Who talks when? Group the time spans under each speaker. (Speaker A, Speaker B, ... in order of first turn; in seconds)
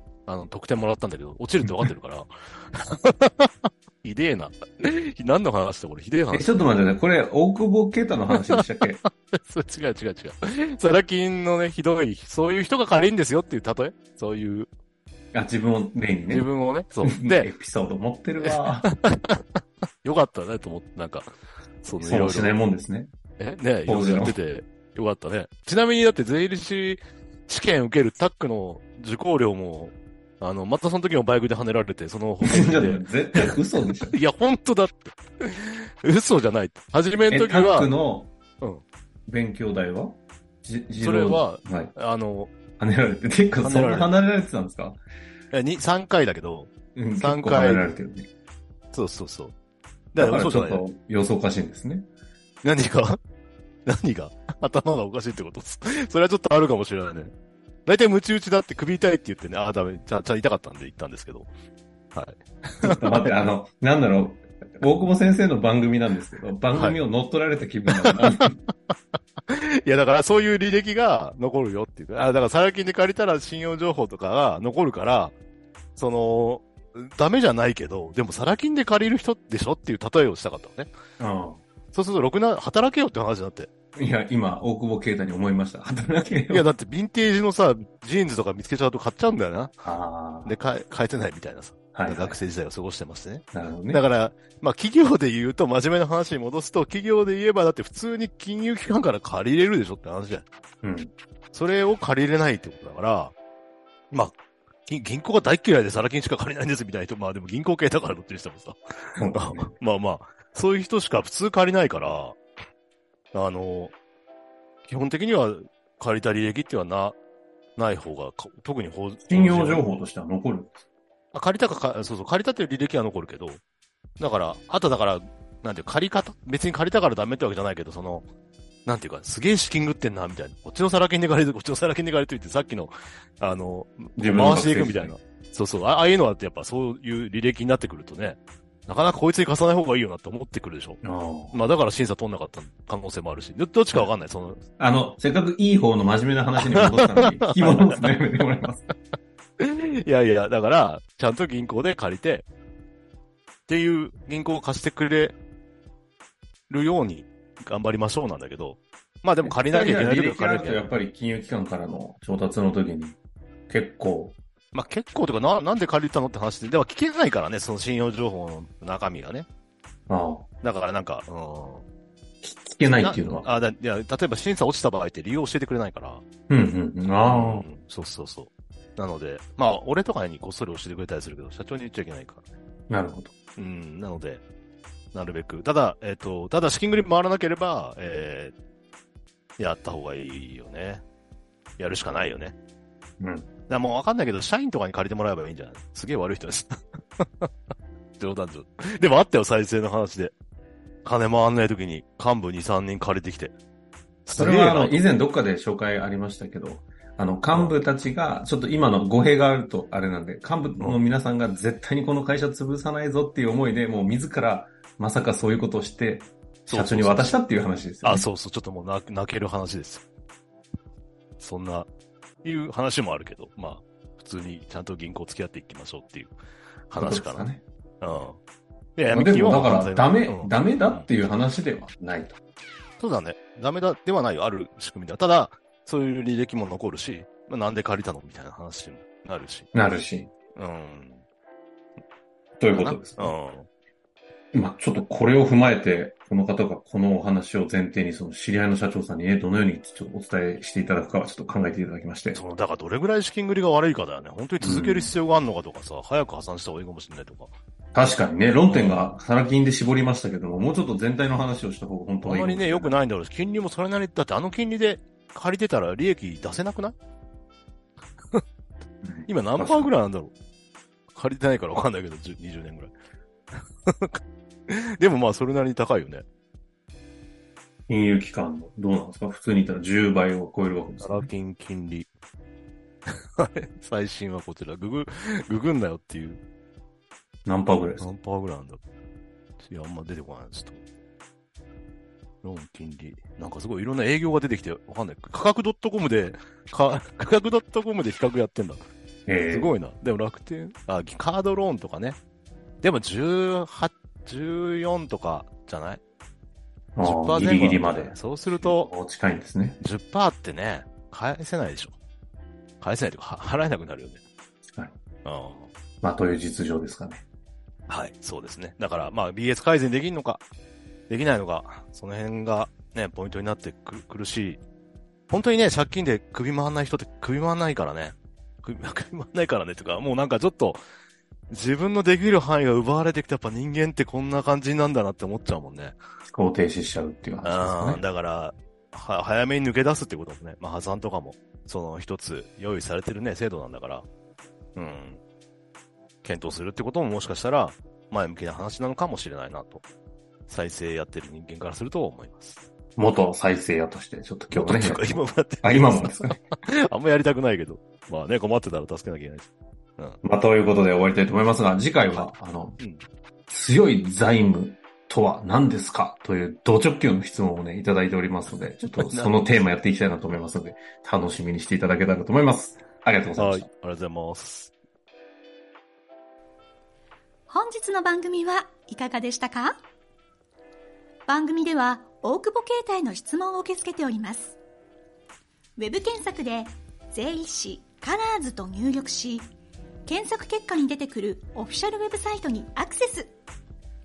Speaker A: 0.3-3.5, 4.0-6.5, 8.3-14.7, 16.3-17.5, 18.4-19.4, 20.0-21.3, 21.8-22.5, 23.4-37.9, 41.0-42.5, 43.6-44.1, 45.5-47.9, 48.9-49.5, 50.1-50.8, 52.6-53.2, 53.9-57.3, 57.9-61.5, 62.1-63.3, 66.7-67.0, 67.9-68.5, 69.5-75.3, 76.0-80.9, 81.9-83.7, 86.5-89.8, 90.4-100.5, 101.5-103.3, 104.1-112.4, 113.3-113.9, 114.8-117.2, 117.8-119.8, 121.3-123.6, 124.2-128.2, 128.8-141.0, 141.5-144.6, 146.6-148.2, 149.6-152.4, 153.7-155.3, 156.7-160.9, 164.7-169.5, 170.6-171.8, 172.8-176.2, 177.2-182.4, 183.6-184.4, 185.1-188.5, 189.6-191.0, 191.8-192.5, 193.7-197.5, 198.2-200.3, 201.0-203.5, 204.2-205.0, 216.7-217.4, 218.0-220.0, 221.4-221.9, 222.4-226.3, 226.9-228.4, 229.0-231.1, 233.0-239.7, 240.6-241.2, 242.8-243.7, 252.3-257.5, 258.7-259.1, 262.2-266.9, 269.2-270.3, 271.1-272.9, 273.9-276.2, 281.0-282.1, 283.4-286.4, 288.0-288.8, 289.6-290.8, 292.4-298.8, 299.5-302.2, 302.8-306.0, 307.0-308.9, 309.8-312.0, 312.8-314.2, 315.2-315.7, 317.9-320.4, 321.1-324.6, 325.3-330.8, 331.5-336.0, 337.4-344.1, 344.8-345.2, 346.2-349.8, 350.5-352.6, 354.5-360.2, 362.8-363.0, 368.8-369.4, 373.4-374.7
Speaker B: 1.6-1.9, 6.3-9.0, 15.3-16.5, 17.0-18.9, 22.0-23.1, 23.9-24.4, 32.4-34.1, 37.3-38.3, 39.3-41.9, 42.8-45.0, 46.9-48.3, 50.2-52.1, 62.8-68.5, 81.2-81.6, 84.0-86.7, 89.8-90.6, 91.9-92.4, 93.5-94.0, 100.8-101.1, 109.2-109.7, 119.3-120.8, 134.2-135.1, 141.0-141.6, 144.8-148.8, 159.4-163.2, 163.7-164.4, 170.1-170.4, 172.4-173.4, 176.5-177.7, 182.9-183.3, 193.2-193.5, 204.3-218.3, 227.0-227.6, 229.1-232.4, 239.7-240.3, 242.6-243.3, 244.5-252.4, 254.6-255.1, 257.9-262.9, 269.0-269.9, 277.9-281.3, 287.4-288.1, 299.3-299.7, 306.9-309.8, 316.0-317.2, 336.3-338.0, 352.9-355.1, 355.6-356.4, 360.2-362.8, 363.5-373.7
Speaker C: 377.5-379.8, 381.3-384.6, 385.8-389.5, 390.1-393.3